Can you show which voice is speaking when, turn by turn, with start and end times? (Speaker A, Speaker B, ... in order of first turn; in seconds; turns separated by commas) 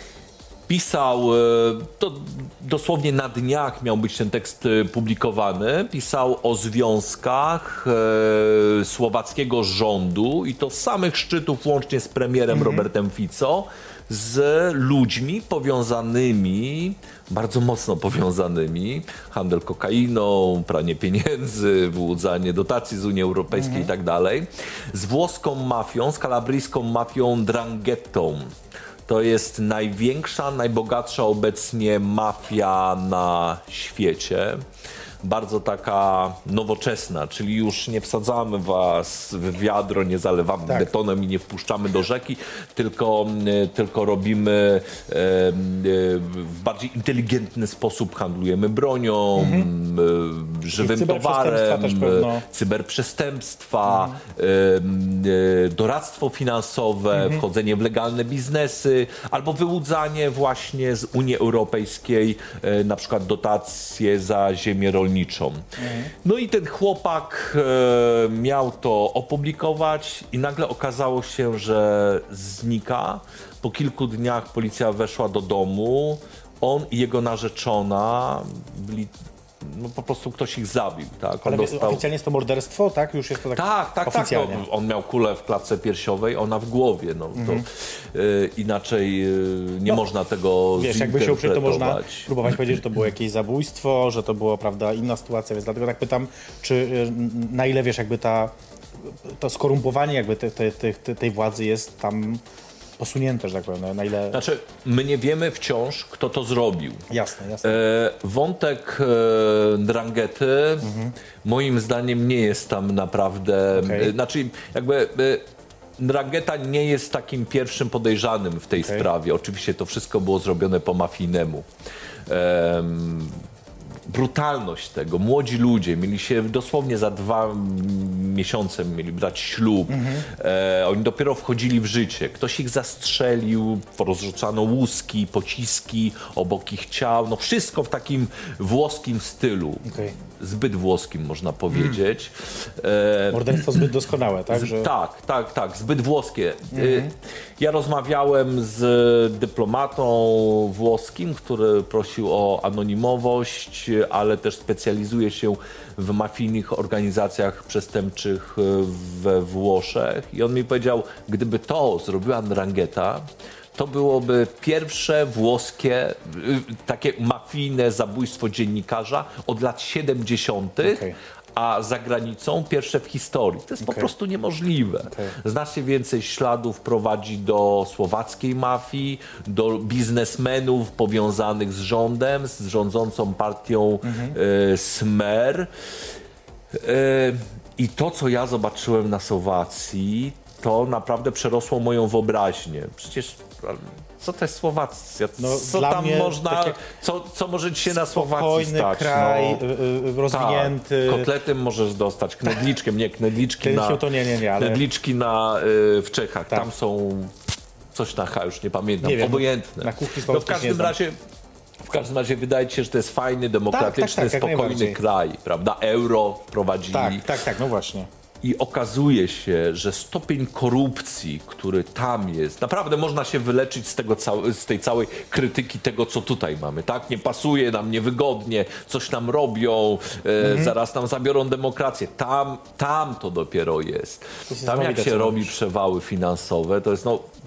Speaker A: 0.7-28.5, Speaker B: 12.5-12.9, Speaker B: 23.5-23.9, Speaker A: 29.1-34.6, Speaker A: 35.2-65.7, Speaker B: 49.4-49.7, Speaker B: 50.8-52.4, Speaker B: 53.9-54.2, Speaker B: 57.1-57.4, Speaker B: 65.8-66.1, Speaker A: 66.2-82.0, Speaker B: 81.4-84.7, Speaker A: 83.5-92.3, Speaker B: 87.4-87.6, Speaker B: 90.8-98.5, Speaker B: 99.0-102.4, Speaker B: 103.0-104.4, Speaker A: 104.3-107.0, Speaker B: 107.1-107.8, Speaker A: 107.6-110.9, Speaker B: 110.8-111.1, Speaker A: 111.4-115.5, Speaker B: 113.8-114.1, Speaker A: 116.0-121.7, Speaker B: 118.8-119.1, Speaker A: 122.3-123.4, Speaker A: 124.1-143.9, Speaker B: 129.9-130.3, Speaker B: 139.8-140.1, Speaker B: 141.7-142.0, Speaker B: 143.3-144.9, Speaker A: 144.5-185.7, Speaker B: 146.7-147.1, Speaker B: 170.8-171.2, Speaker B: 173.8-174.1, Speaker B: 175.1-175.4, Speaker B: 184.0-184.4, Speaker A: 186.7-199.6, Speaker B: 195.4-196.8, Speaker B: 197.9-201.3, Speaker A: 200.3-204.1, Speaker B: 203.6-204.8, Speaker A: 204.6-207.3, Speaker A: 207.9-211.2, Speaker B: 209.0-211.0, Speaker A: 211.8-217.3, Speaker B: 213.7-215.0, Speaker B: 216.9-218.1, Speaker A: 218.4-237.3, Speaker B: 230.4-230.7, Speaker B: 234.5-235.5